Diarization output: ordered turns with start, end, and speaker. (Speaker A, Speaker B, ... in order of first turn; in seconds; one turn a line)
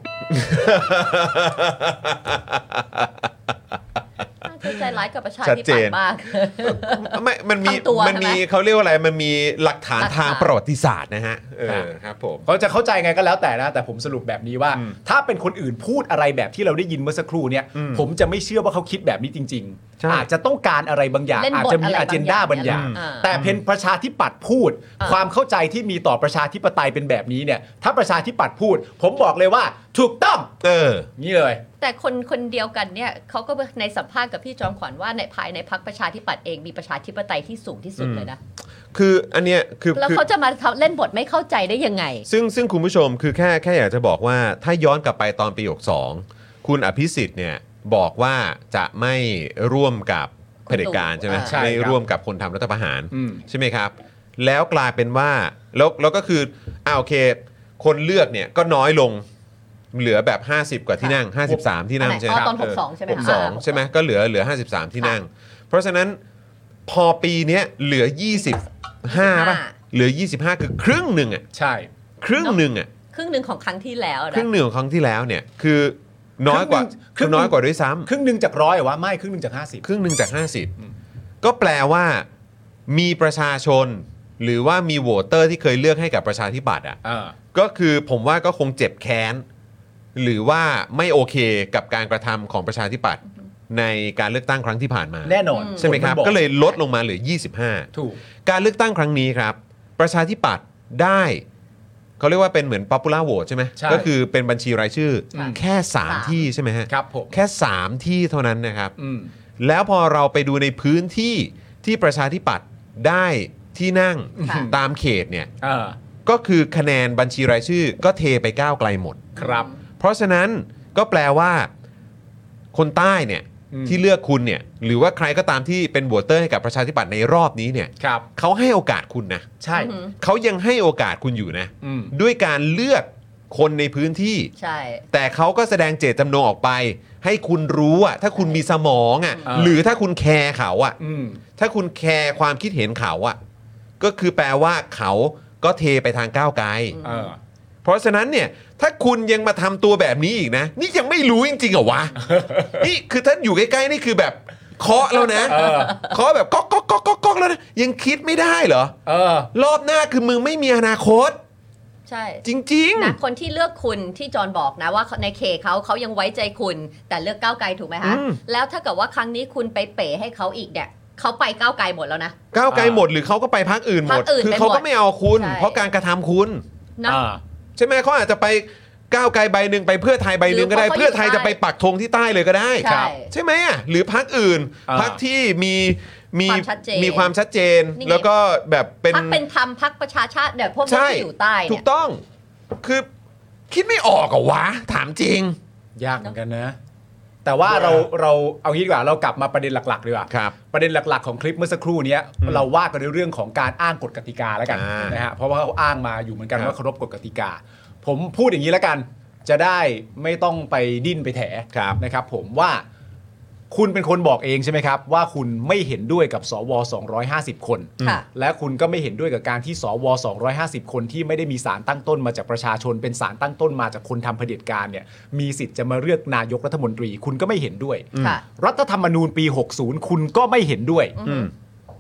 Speaker A: 0.2-3.5
Speaker B: 4.4-7.1
Speaker A: 5.4-6.0
Speaker A: 6.6-12.5
Speaker B: 7.6-8.4
Speaker B: 10.0-10.5
Speaker C: 12.5-30.5
Speaker A: 17.8-18.1
Speaker A: 20.0-20.3
Speaker B: 21.3-23.3
Speaker A: 22.6-23.6
Speaker A: 30.6-31.1
Speaker C: 31.2-31.6
Speaker B: 31.8-38.4
Speaker A: 38.0-38.3
Speaker A: 38.9-40.2
Speaker B: 40.0-42.3
Speaker A: 42.3-59.2
Speaker B: 50.7-51.6
Speaker C: 51.3-52.0
Speaker C: 53.1-53.4
Speaker A: 59.9-66.2
Speaker B: 62.0-63.8
Speaker A: 66.9-71.5
Speaker B: 69.1-69.8
Speaker C: 71.5-71.9
Speaker A: 72.2-72.9
Speaker B: 73.1-74.5
Speaker A: 74.3-78.1
Speaker C: 76.5-77.5
Speaker C: 78.1-79.8
Speaker A: 79.8-80.7
Speaker A: 81.4-82.3
Speaker A: 82.9-87.0
Speaker C: 87.0-87.3
Speaker A: 87.5-89.5
Speaker A: 90.2-97.9
Speaker C: 95.2-96.4
Speaker B: 95.5-95.9
Speaker C: 97.9-98.2
Speaker A: 98.5-101.4
Speaker A: 102.2-109.0
Speaker C: 103.8-104.1
Speaker B: 105.3-106.5
Speaker C: 105.3-105.6
Speaker C: 106.9-107.3
Speaker C: 109.0-109.3
Speaker A: 109.6-115.5
Speaker C: 114.4-114.8
Speaker B: 114.4-114.7
Speaker C: 115.6-116.0
Speaker A: 116.2-119.4
Speaker C: 119.4-119.7
Speaker B: 119.4-119.8
Speaker A: 120.0-121.7
Speaker A: 122.7-129.5
Speaker C: 123.7-124.0
Speaker C: 128.0-128.3
Speaker C: 129.6-129.9
Speaker B: 129.7-130.2
Speaker A: 130.2-134.5
Speaker C: 131.8-132.1
Speaker B: 134.6-135.1
Speaker A: 135.1-141.0
Speaker C: 139.5-139.8
Speaker C: 141.0-141.4
Speaker A: 141.6-143.4
Speaker A: 144.0-147.0
Speaker B: 146.9-147.3
Speaker C: 147.0-147.4
Speaker A: 147.8-158.9
Speaker C: 152.2-152.8
Speaker C: 155.5-156.0
Speaker C: 159.1-159.5
Speaker A: 159.5-161.4
Speaker B: 162.1-162.4
Speaker A: 162.4-163.2
Speaker B: 163.0-172.3
Speaker A: 168.0-168.4
Speaker A: 172.5-176.6
Speaker C: 172.7-173.1
Speaker B: 174.1-175.8
Speaker B: 177.0-177.2
Speaker C: 177.1-177.4
Speaker A: 177.8-189.4
Speaker B: 180.5-181.6
Speaker B: 182.8-183.3
Speaker C: 182.9-183.1
Speaker C: 184.9-185.2
Speaker B: 186.5-187.3
Speaker B: 188.0-188.3
Speaker B: 189.1-191.8
Speaker A: 190.8-192.2
Speaker A: 192.8-193.1
Speaker A: 193.7-195.6
Speaker C: 196.0-196.8
Speaker C: 197.4-212.8
Speaker A: 197.7-198.1
Speaker A: 200.3-200.6
Speaker A: 204.7-205.2
Speaker A: 211.7-212.0
Speaker C: 213.7-231.2
Speaker B: 218.0-218.3
Speaker A: 228.1-228.4
Speaker B: 228.2-228.4
Speaker B: 231.2-231.5
Speaker A: 231.2-231.5